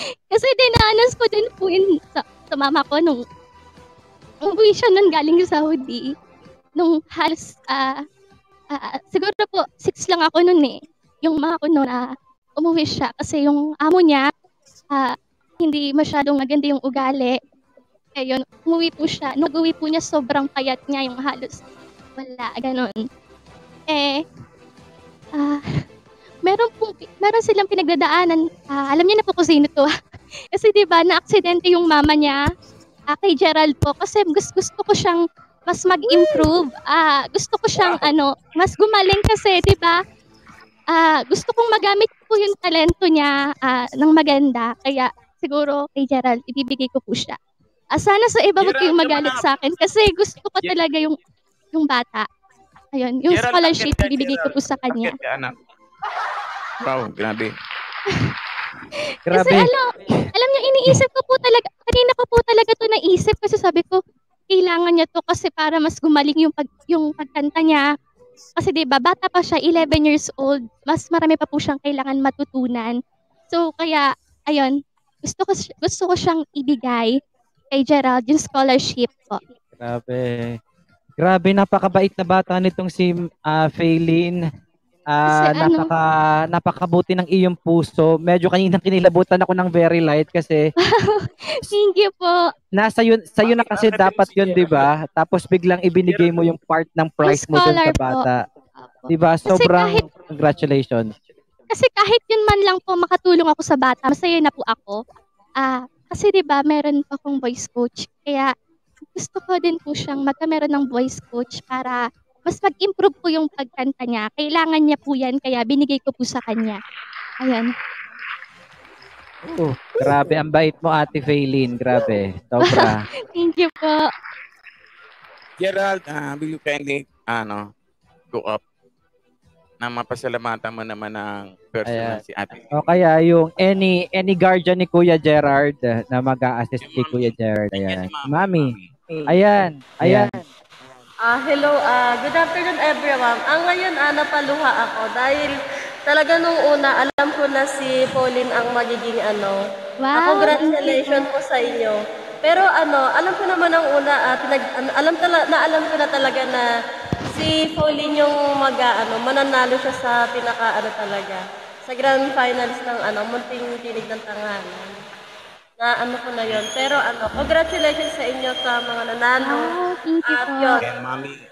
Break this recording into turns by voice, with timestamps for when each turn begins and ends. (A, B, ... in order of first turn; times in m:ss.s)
0:00.3-0:03.2 A
0:04.4-0:06.0 A
0:06.8-0:07.9 A
0:08.7-0:12.0 A
0:12.6-0:14.2 A
0:14.9-0:17.4 A
0:18.2-0:21.6 A
0:22.2-0:22.9 A
0:23.9-0:24.2 A
0:25.4-0:25.6 A
0:26.4-0:29.9 A
0:30.5-0:32.4 A
0:33.1-0:40.0 A
0:37.8-0:38.0 B
0:40.9-0:47.4 A
0:47.9-0:51.1 A
0:48.6-0:49.5 B
0:51.7-0:52.3 A
0:52.9-0:55.1 A
0:53.3-0:55.5 B
0:56.8-0:57.5 B
0:59.3-1:00.3 C
0:59.3-1:04.0 A
1:04.5-1:07.8 A
1:08.6-1:12.9 A
1:13.5-1:17.1 A
1:17.7-1:19.4 A
1:19.8-1:20.5 C
1:21.2-1:24.4 C
1:25.1-1:30.6 C
1:25.3-1:25.9 A
1:30.8-1:32.4 A
1:32.8-1:38.4 C
1:33.4-1:34.9 B
1:36.0-1:36.3 B
1:37.2-1:38.2 A
1:38.8-1:40.0 A
1:39.1-1:41.1 C
1:41.7-1:45.0 A
1:45.6-1:48.5 A
1:49.1-1:56.8 A
1:57.4-1:57.7 A
1:59.5-2:03.0 C
2:02.7-2:04.0 A
2:05.6-2:07.6 B
2:08.3-2:08.6 B
2:09.8-2:12.7 B
2:11.9-2:12.2 C
2:12.7-2:18.7 C
2:16.8-2:18.9 B
2:19.3-2:20.4 C
2:21.3-2:25.6 D
2:26.1-2:29.6 D
2:30.0-2:31.3 A
2:30.2-2:36.6 D
2:37.3-2:44.9 D
2:45.8-2:49.8 D
2:46.5-2:46.9 B
2:49.4-2:50.8 A
2:50.3-2:50.8 D
2:50.8-2:51.4 B